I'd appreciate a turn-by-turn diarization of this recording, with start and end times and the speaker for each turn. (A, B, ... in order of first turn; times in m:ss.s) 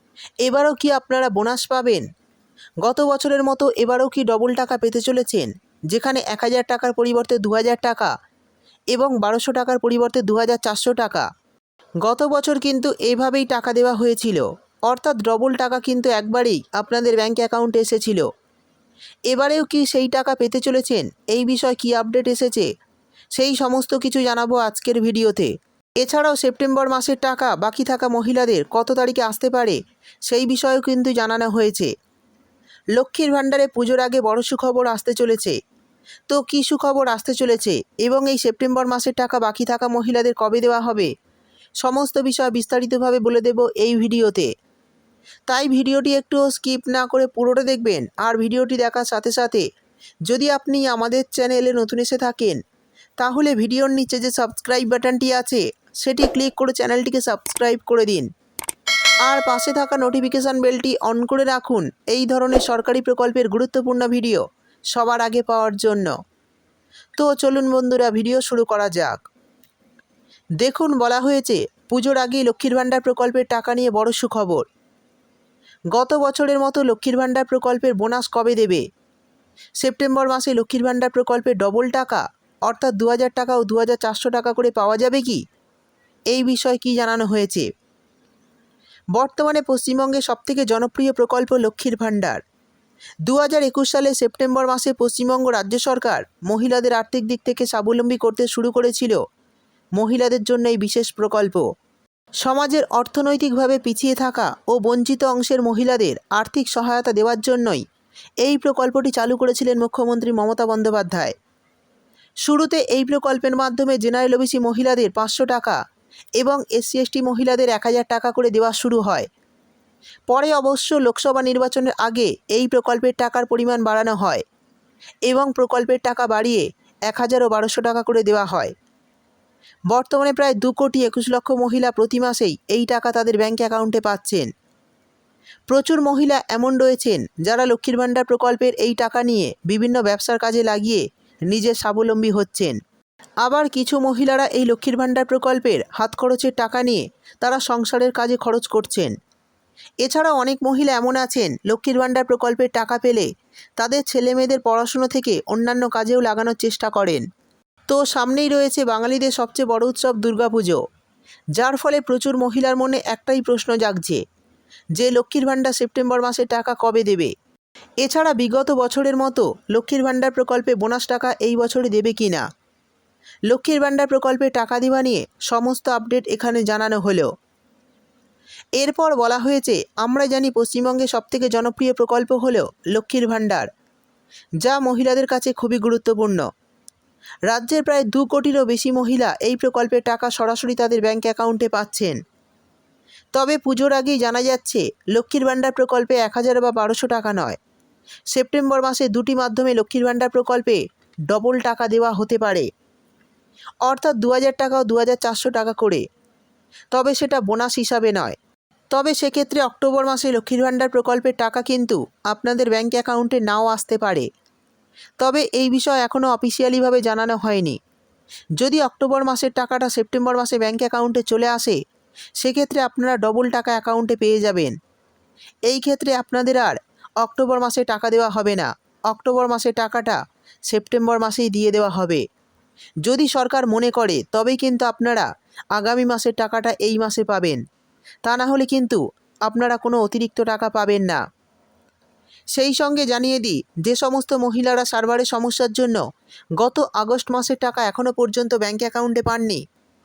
0:00.4-0:02.1 A
0:02.8-0:08.1 A
0:08.9-0:11.3 A
0:12.0-0:18.3 A
0:19.3-0:22.7 A
0:23.4-0:31.9 A
0:33.0-0:35.6 A
0:36.3-0:41.1 A
0:41.8-0:44.5 A
0:45.5-0:49.6 A
0:50.3-0:52.6 A
0:53.2-0:58.3 A
0:59.2-1:04.4 A
1:04.9-1:06.1 A
1:07.2-1:09.2 A
1:10.6-1:14.7 A
1:15.9-1:18.8 A
1:19.8-1:25.4 A
1:26.3-1:27.7 A
1:29.2-1:32.4 A
1:33.3-1:39.2 A
1:40.0-1:41.6 A
1:42.4-1:47.8 A
1:48.4-1:51.3 A
1:52.4-1:55.8 A
1:56.4-1:59.3 A
2:00.3-2:04.4 A
2:05.3-2:08.7 A
2:09.9-2:14.5 A
2:15.7-2:22.8 A
2:23.4-2:29.1 A
2:30.0-2:33.3 A
2:33.8-2:37.2 A
2:37.9-2:40.8 A
2:41.6-2:44.2 A
2:45.0-2:47.3 A
2:48.0-2:52.4 A
2:53.5-2:57.3 A
2:58.8-3:03.7 A
3:04.6-3:06.4 A
3:07.5-3:12.2 A
3:13.4-3:17.6 A
3:18.3-3:22.7 A
3:23.8-3:26.0 A
3:26.9-3:28.4 A
3:28.9-3:34.3 A
3:35.2-3:37.8 A
3:38.6-3:41.8 A
3:42.4-3:44.8 A
3:45.7-3:50.2 A
3:50.7-3:52.2 A
3:53.0-3:57.6 A
3:58.2-4:01.2 A
4:02.5-4:06.0 A
4:06.6-4:09.6 A